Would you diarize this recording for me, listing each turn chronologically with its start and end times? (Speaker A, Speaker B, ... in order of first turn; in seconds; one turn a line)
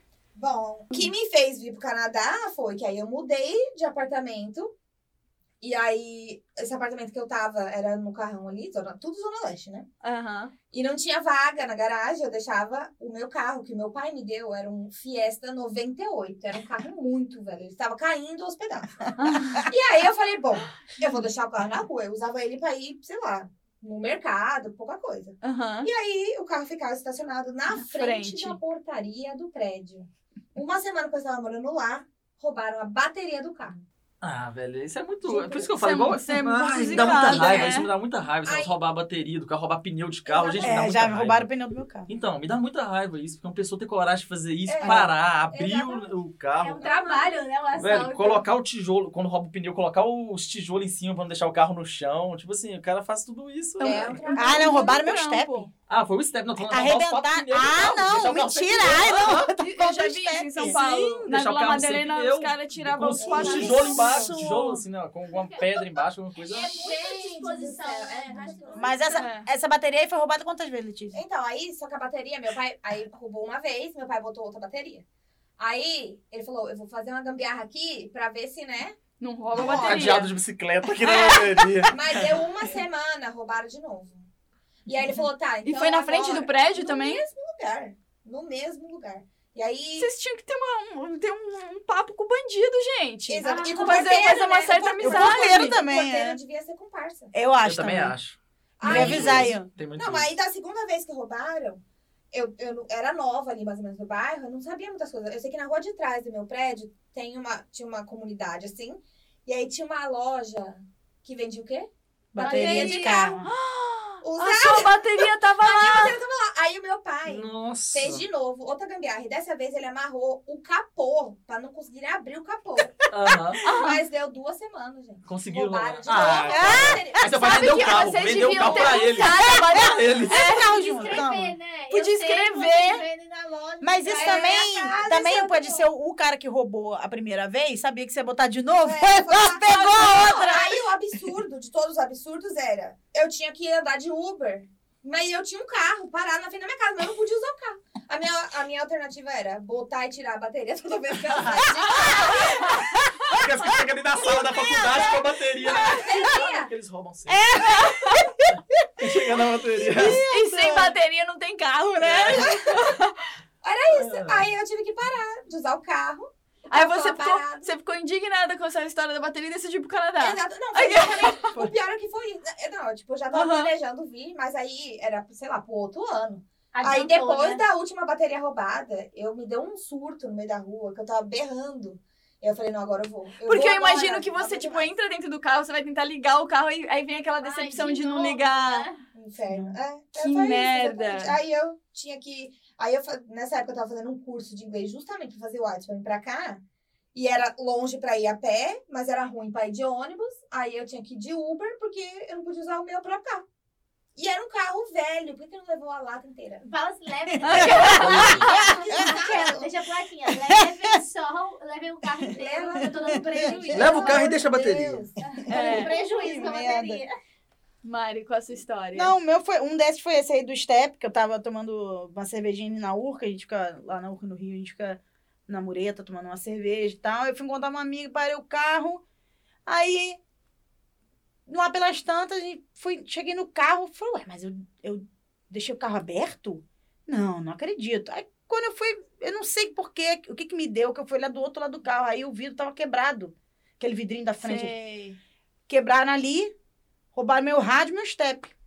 Speaker A: 0.3-4.7
Speaker A: 5.6-9.9
Speaker B: 10.0-10.5
Speaker A: 10.7-33.8
Speaker B: 19.2-19.7
Speaker B: 25.4-25.9
Speaker B: 27.7-28.6
Speaker C: 34.2-41.5
Speaker A: 35.2-35.7
Speaker B: 35.8-37.9
Speaker A: 36.8-37.7
Speaker A: 38.4-38.8
Speaker A: 40.2-40.9
Speaker D: 40.6-42.1
Speaker C: 42.1-46.9
Speaker A: 44.7-46.1
Speaker E: 46.6-48.5
Speaker A: 46.8-47.4
Speaker C: 47.8-54.3
Speaker B: 53.8-55.7
Speaker A: 53.8-55.0
Speaker D: 54.3-55.7
Speaker C: 55.9-59.5
Speaker D: 56.6-61.3
Speaker B: 59.5-64.0
Speaker C: 60.6-66.9
Speaker A: 63.2-64.3
Speaker D: 63.3-64.8
Speaker E: 63.6-64.0
Speaker E: 65.3-65.9
Speaker A: 66.4-69.0
Speaker E: 66.4-69.2
Speaker D: 68.7-71.2
Speaker B: 69.1-69.5
Speaker A: 71.1-75.0
Speaker A: 75.6-79.0
Speaker B: 79.2-80.3
Speaker A: 79.5-80.3
Speaker C: 79.5-82.5
Speaker B: 81.0-81.6
Speaker A: 81.9-84.3
Speaker A: 84.8-90.1
Speaker B: 85.6-87.2
Speaker B: 90.0-95.8
Speaker A: 93.3-97.3
Speaker E: 93.4-94.2
Speaker D: 95.0-96.4
Speaker D: 97.3-98.1
Speaker C: 97.6-100.3
Speaker A: 98.8-113.2
Speaker D: 98.8-99.7
Speaker D: 112.3-113.5
Speaker E: 112.4-113.4
Speaker B: 112.6-116.2
Speaker A: 114.2-123.0
Speaker C: 117.2-118.2
Speaker C: 123.1-123.6
Speaker A: 123.6-128.1
Speaker B: 123.6-124.0
Speaker C: 125.2-130.4
Speaker D: 126.4-127.4
Speaker B: 127.3-131.2
Speaker A: 128.6-128.9
Speaker D: 129.3-131.6
Speaker E: 130.2-135.1
Speaker B: 131.9-133.0
Speaker D: 133.8-140.6
Speaker A: 134.0-135.9
Speaker A: 138.8-152.8
Speaker C: 151.3-151.9
Speaker B: 152.1-152.5
Speaker C: 153.3-157.5
Speaker A: 154.2-156.7
Speaker D: 157.3-159.0
Speaker B: 157.5-158.2
Speaker C: 159.0-160.2
Speaker D: 159.9-160.9
Speaker B: 159.9-163.2
Speaker A: 162.0-162.8
Speaker A: 163.6-167.7
Speaker C: 163.9-164.5
Speaker B: 166.7-171.5
Speaker A: 170.2-184.9
Speaker B: 173.3-173.7
Speaker E: 176.7-177.6
Speaker B: 183.4-188.9
Speaker E: 187.4-189.0
Speaker A: 189.1-196.6
Speaker D: 189.5-189.7
Speaker B: 190.2-191.4
Speaker A: 197.1-203.4
Speaker A: 204.2-206.6
Speaker E: 206.6-214.3
Speaker D: 207.4-208.4
Speaker B: 207.4-208.4
Speaker A: 207.6-209.7
Speaker C: 207.8-208.4
Speaker D: 210.3-210.7
Speaker A: 212.3-215.2
Speaker D: 212.8-213.9
Speaker C: 213.7-215.1
Speaker E: 215.2-217.1
Speaker D: 215.5-217.0
Speaker B: 215.5-215.9
Speaker B: 217.8-219.1
Speaker D: 218.9-229.0
Speaker D: 229.7-230.2
Speaker D: 231.5-244.7
Speaker B: 244.4-245.2
Speaker D: 245.7-246.5
Speaker D: 247.1-248.5